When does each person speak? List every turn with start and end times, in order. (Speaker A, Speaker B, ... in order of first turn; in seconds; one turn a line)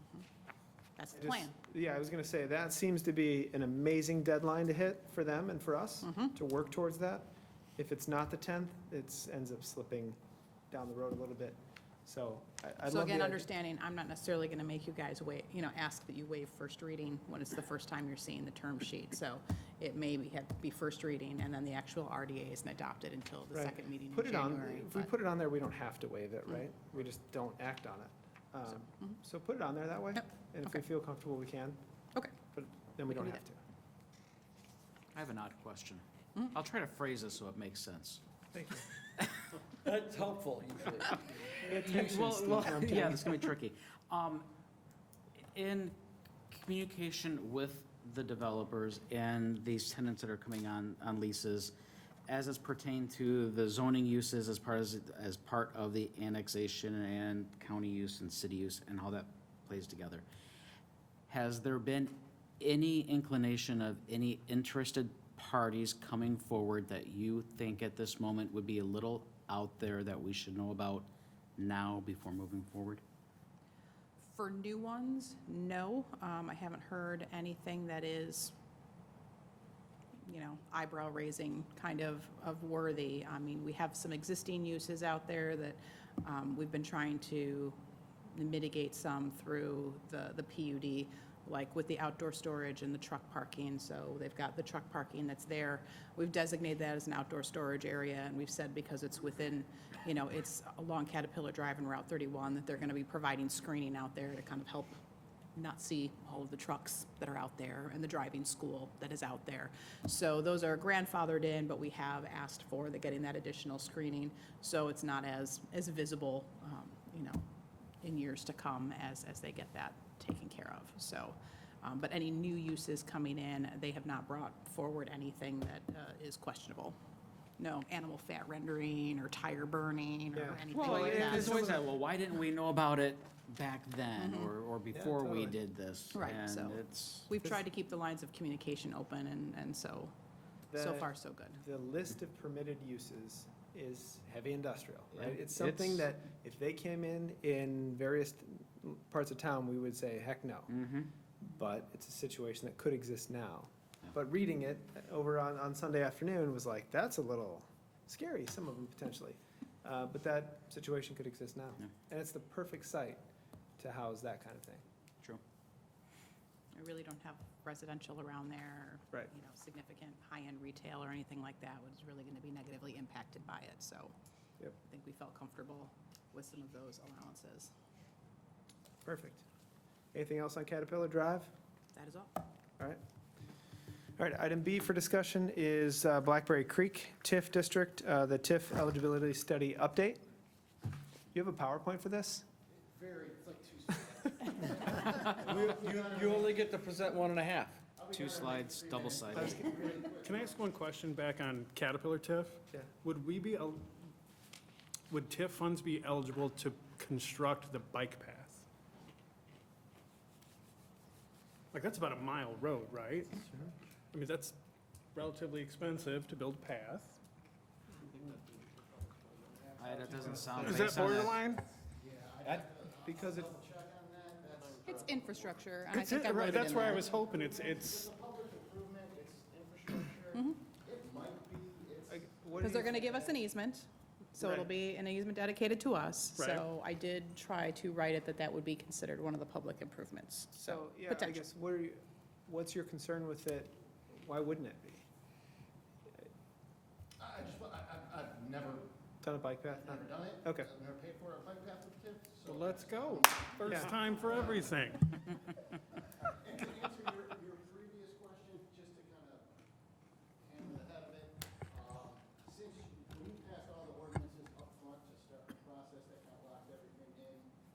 Speaker A: 1.0-1.5
Speaker B: 1.2-10.2
Speaker A: 6.0-6.3
Speaker B: 10.7-13.5
Speaker A: 12.8-25.1
Speaker B: 23.5-31.8
Speaker B: 32.5-33.6
Speaker A: 33.1-33.4
Speaker C: 35.1-38.2
Speaker B: 38.5-38.9
Speaker D: 39.8-41.1
Speaker B: 41.5-43.5
Speaker C: 41.6-44.5
Speaker C: 45.5-46.0
Speaker C: 46.5-51.7
Speaker C: 52.3-60.2
Speaker C: 61.3-73.0
Speaker A: 74.2-78.5
Speaker A: 80.2-87.8
Speaker A: 88.3-104.9
Speaker A: 105.5-117.5
Speaker A: 118.0-127.0
Speaker A: 127.6-131.6
Speaker B: 130.3-131.9
Speaker C: 130.7-137.3
Speaker A: 134.2-134.5
Speaker B: 134.9-135.6
Speaker A: 136.1-140.1
Speaker B: 140.7-150.7
Speaker A: 140.7-141.6
Speaker C: 145.1-146.1
Speaker C: 150.7-151.1
Speaker B: 151.4-163.2
Speaker B: 163.8-164.8
Speaker A: 166.7-174.1
Speaker A: 174.8-177.7
Speaker B: 179.0-179.4
Speaker B: 180.1-181.5
Speaker A: 181.9-182.4
Speaker B: 184.2-190.2
Speaker B: 191.3-192.4
Speaker E: 192.7-196.7
Speaker D: 195.7-197.8
Speaker E: 197.9-200.7
Speaker C: 198.1-199.8
Speaker B: 199.3-199.7
Speaker F: 200.2-203.9
Speaker F: 205.1-208.7
Speaker F: 211.7-213.6
Speaker F: 214.1-214.6
Speaker F: 215.1-217.2
Speaker E: 218.0-225.6
Speaker C: 219.8-221.4
Speaker B: 220.3-220.8
Speaker F: 220.6-221.7
Speaker B: 222.4-223.5
Speaker A: 224.8-227.1
Speaker F: 225.9-228.1
Speaker E: 226.3-233.4
Speaker A: 230.3-230.6
Speaker B: 232.1-233.2
Speaker A: 232.6-241.4
Speaker B: 234.4-234.7
Speaker F: 236.4-236.6
Speaker B: 240.5-245.0
Speaker E: 247.2-248.9
Speaker B: 249.2-250.7
Speaker E: 249.7-254.9
Speaker F: 252.4-255.1
Speaker B: 253.7-253.9
Speaker E: 256.0-259.5
Speaker E: 260.4-267.5